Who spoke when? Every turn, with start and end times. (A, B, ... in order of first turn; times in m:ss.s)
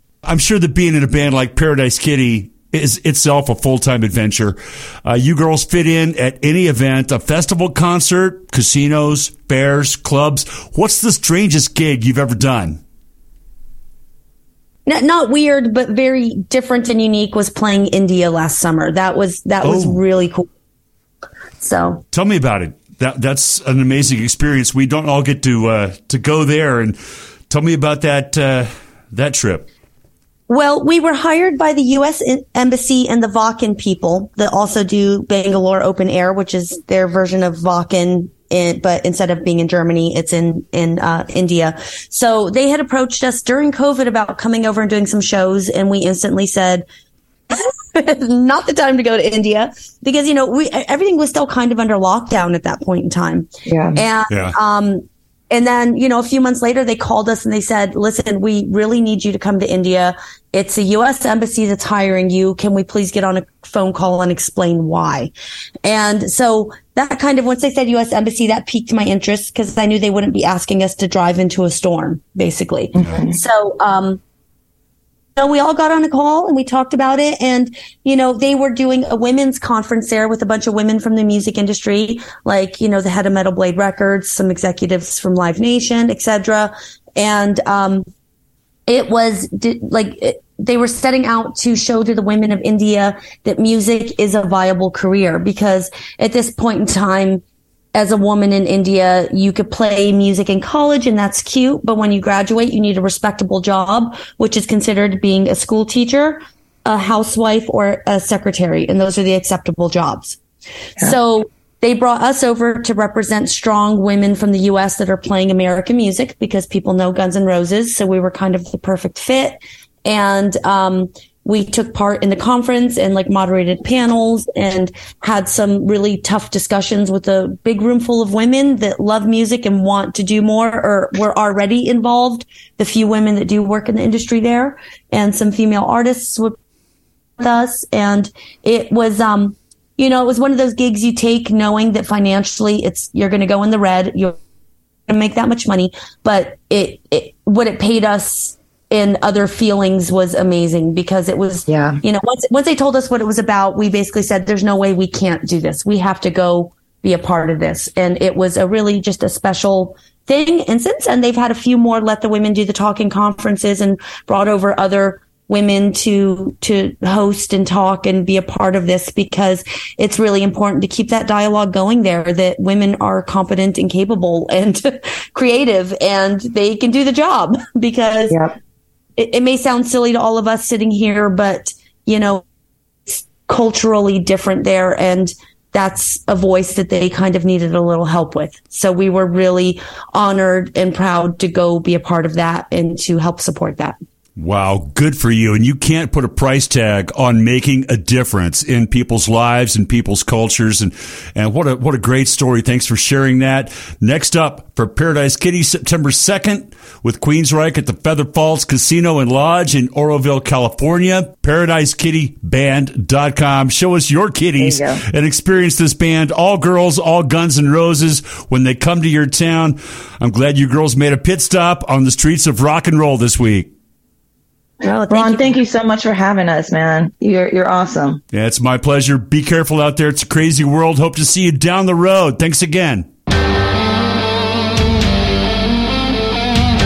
0:00.2-0:12.8 A
0:14.8-0:20.5 B
0:19.6-0:20.0 A
0:21.6-0:22.0 B
0:22.1-0:27.0 A
0:27.5-0:29.7 A
0:30.5-0:46.9 B
0:47.5-1:05.3 B
0:53.7-0:54.0 C
0:54.3-0:54.6 A
1:05.8-1:14.2 B
1:13.0-1:13.4 C
1:15.4-1:28.0 B
1:28.9-1:37.4 B
1:37.9-1:50.4 B
1:51.0-2:16.6 B
2:17.4-2:24.4 B
2:25.1-2:58.4 B
2:31.7-2:32.0 C
2:59.2-3:02.4 B
3:03.1-3:14.0 B
3:14.4-3:43.7 A
3:34.6-3:35.0 C
3:44.8-3:45.5 B
3:45.1-3:48.2 C
3:48.3-3:53.1 A